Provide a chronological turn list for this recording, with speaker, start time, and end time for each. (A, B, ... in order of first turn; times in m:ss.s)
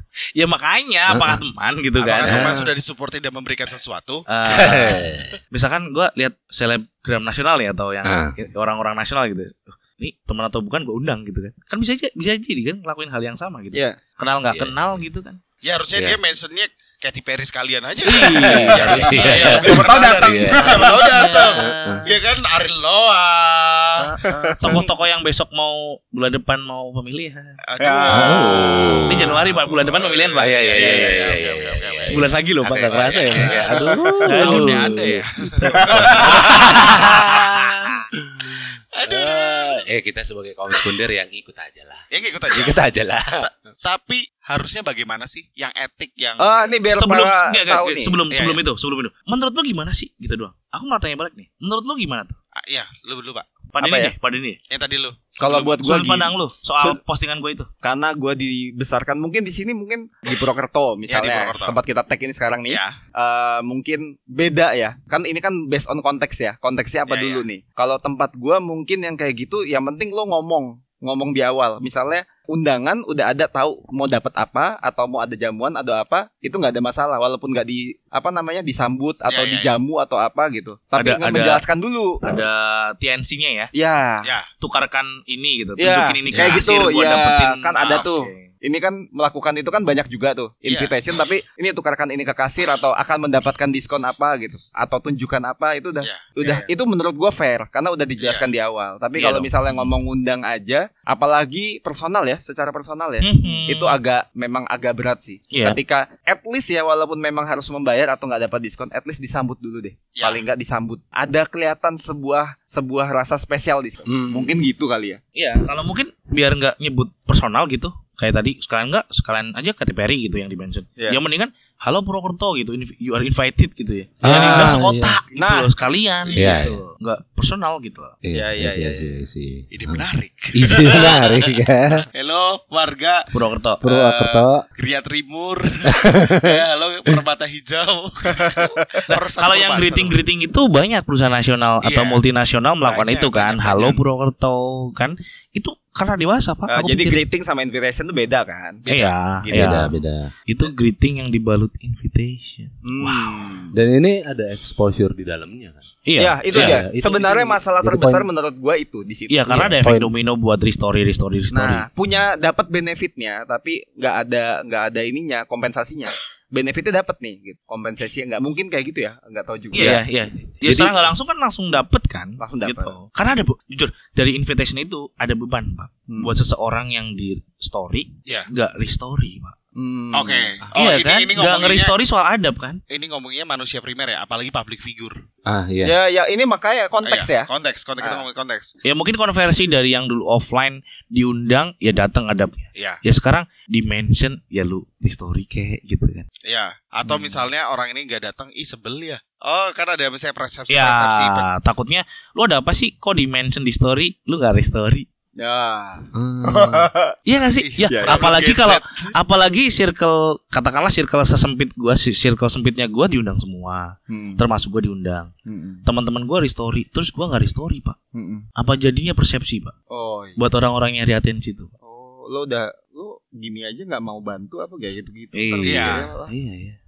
0:00.4-0:02.6 A
0:01.1-0:01.4 B
0:02.0-0:04.3 C
0:02.2-0:02.7 B
0:04.3-0:15.4 A
0:04.5-0:05.4 B
0:08.0-0:08.4 B
0:13.7-0:14.0 D
0:14.5-0:15.0 B
0:15.6-0:24.1 C
0:18.1-0:19.7 A
0:18.3-0:20.9 B
0:18.4-0:21.3 D
0:20.6-0:22.1 A
0:21.6-0:22.1 B
0:24.0-0:27.6 A
0:24.2-0:24.8 D
0:27.7-0:37.7 C
0:27.8-0:28.8 D
0:28.1-0:29.6 B
0:29.1-0:31.2 A
0:30.4-0:43.5 B
0:32.0-0:33.6 A
0:33.4-0:34.2 D
0:34.3-0:35.0 A
0:36.4-0:37.2 A
0:39.0-0:39.8 C
0:42.1-0:42.8 C
0:43.4-0:46.5 C
0:46.4-0:48.2 D
0:46.9-0:52.4 A
0:48.3-0:48.6 C
0:52.6-0:53.5 C
0:53.7-0:54.6 A
0:53.8-0:54.1 D
0:54.7-0:55.8 C
0:55.4-0:57.0 D
0:55.8-0:57.7 A
0:57.8-1:22.2 D
1:01.1-1:01.8 C
1:02.7-1:03.0 C
1:07.1-1:07.4 C
1:19.3-1:19.8 C
1:21.0-1:21.6 A
1:22.2-1:23.7 A
1:23.7-1:24.3 D
1:24.2-1:24.5 C
1:24.6-1:28.5 A
1:25.8-1:55.2 D
1:26.3-1:26.7 C
1:27.8-1:28.0 C
1:30.7-1:30.9 C
1:36.0-1:36.7 C
1:38.2-1:38.5 C
1:39.2-1:39.9 A
1:43.2-1:44.0 A
1:45.5-1:45.8 A
1:50.2-1:50.4 C
1:54.1-1:54.6 B
1:55.4-2:08.2 A
2:04.2-2:05.2 B
2:04.3-2:04.7 D
2:05.4-2:05.7 D
2:06.3-2:06.8 B
2:08.2-2:12.1 B
2:08.3-2:09.1 D
2:09.7-2:11.6 C
2:12.1-2:13.3 C
2:13.3-2:13.8 A
2:13.8-2:14.6 B
2:13.8-2:20.2 C
2:15.9-2:17.2 B
2:18.3-2:18.8 D
2:19.1-2:27.2 A
2:21.8-2:22.2 C
2:22.8-2:24.0 C
2:26.7-2:28.8 D
2:28.9-2:30.0 A
2:29.4-2:29.8 D
2:29.5-2:30.3 B
2:30.5-2:33.4 A
2:32.8-2:33.7 D
2:33.7-2:35.8 B
2:36.1-2:36.8 A
2:36.2-2:39.7 D
2:36.5-2:38.3 B
2:39.3-2:41.9 A
2:39.5-2:40.1 B
2:41.5-2:50.0 D
2:49.7-2:59.6 A
2:49.7-2:50.0 B
2:50.6-2:51.1 B
2:52.4-2:53.0 D
2:59.8-3:00.6 D
3:00.1-3:01.9 C
3:00.8-3:02.8 A
3:02.9-3:05.2 C
3:05.5-3:05.9 B
3:05.8-3:07.5 D
3:07.0-3:08.7 C
3:08.8-3:16.3 A
3:12.8-3:13.0 C
3:16.5-3:21.5 C
3:17.1-3:17.3 D
3:20.7-3:25.1 A
3:25.4-3:27.2 D
3:26.1-3:26.9 B
3:27.3-3:35.3 A
3:27.6-3:29.1 C
3:27.8-3:28.2 D
3:34.1-3:34.4 D
3:35.5-3:35.8 D
3:35.9-3:38.0 A
3:38.2-3:38.5 D
3:38.6-3:39.7 A
3:39.9-3:40.4 D
3:40.4-3:41.7 A
3:41.8-3:46.3 D
3:45.3-3:46.8 A
3:45.6-3:46.1 C